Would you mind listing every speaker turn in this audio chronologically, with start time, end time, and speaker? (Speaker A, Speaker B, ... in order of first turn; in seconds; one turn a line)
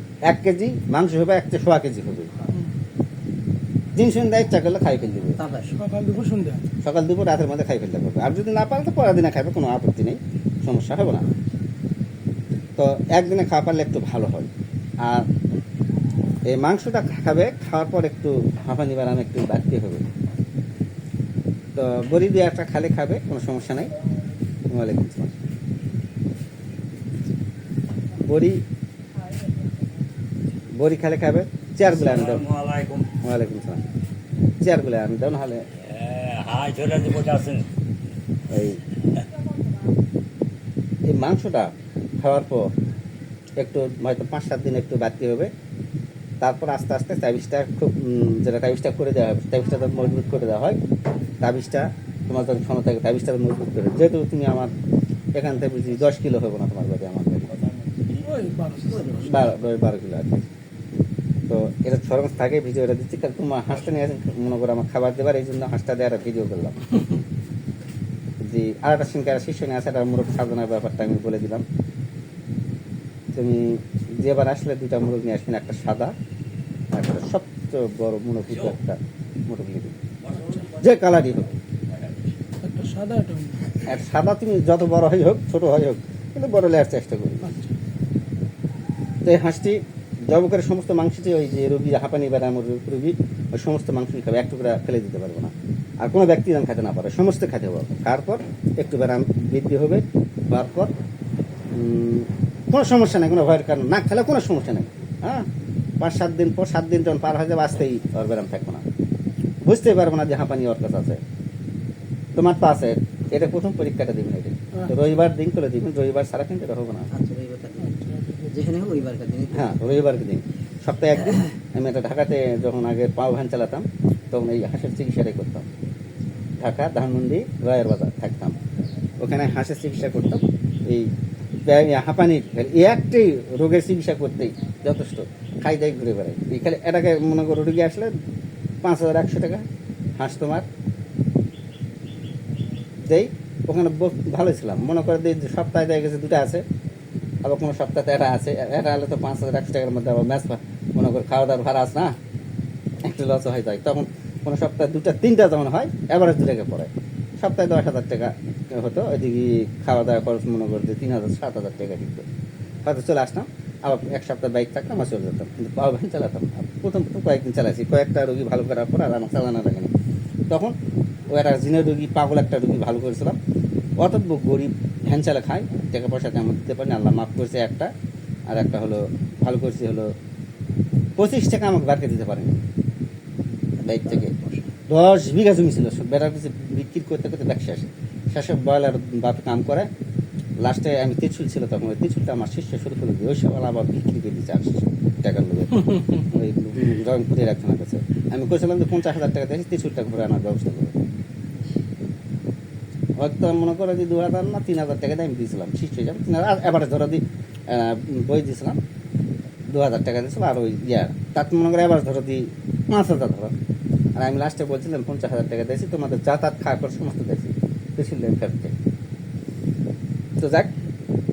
Speaker A: 0.2-2.3
Speaker A: 4.0-5.4
Speaker B: 5.4-5.8
Speaker C: 5.7-6.7
Speaker A: 6.8-11.3
Speaker A: 12.8-14.5
Speaker A: 15.0-15.3
Speaker A: 16.5-20.1
Speaker A: 21.8-23.9
Speaker A: 24.7-25.3
Speaker A: 28.2-28.6
Speaker A: 30.8-32.5
Speaker D: 31.9-33.1
Speaker A: 33.2-33.8
Speaker A: 34.6-35.7
Speaker D: 35.8-37.7
Speaker A: 38.5-38.8
Speaker A: 41.1-42.7
Speaker A: 43.6-45.5
Speaker A: 46.4-50.8
Speaker A: 51.4-54.7
Speaker A: 55.3-57.5
Speaker D: 57.9-58.2
Speaker C: 58.2-59.7
Speaker B: 58.9-59.4
Speaker A: 59.2-60.4
Speaker A: 61.5-66.9
Speaker A: 68.4-71.7
Speaker A: 73.3-76.1
Speaker A: 76.9-80.0
Speaker D: 80.2-80.9
Speaker A: 80.8-81.5
Speaker D: 81.9-82.3
Speaker C: 82.6-83.7
Speaker A: 83.9-87.6
Speaker C: 87.5-87.8
Speaker A: 89.2-100.9
Speaker A: 101.7-105.5
Speaker A: 106.0-108.8
Speaker A: 109.6-111.2
Speaker A: 112.4-117.1
Speaker B: 117.1-118.0
Speaker C: 117.8-118.6
Speaker B: 118.5-119.7
Speaker A: 119.5-125.7
Speaker A: 126.6-128.6
Speaker A: 129.2-131.1
Speaker A: 131.7-138.1
Speaker A: 138.8-139.7
Speaker A: 140.2-140.7
Speaker A: 143.0-146.6
Speaker A: 147.4-152.2
Speaker A: 153.0-162.3
Speaker A: 162.8-169.9
Speaker A: 171.3-173.4
Speaker A: 174.0-177.9
Speaker A: 178.5-180.1
Speaker A: 181.2-182.5
Speaker A: 183.8-184.3
Speaker B: 183.9-184.7
Speaker A: 184.9-189.9
Speaker A: 190.6-201.0
Speaker A: 203.2-208.8
Speaker A: 209.7-213.5
Speaker A: 214.2-218.7
Speaker A: 220.4-220.7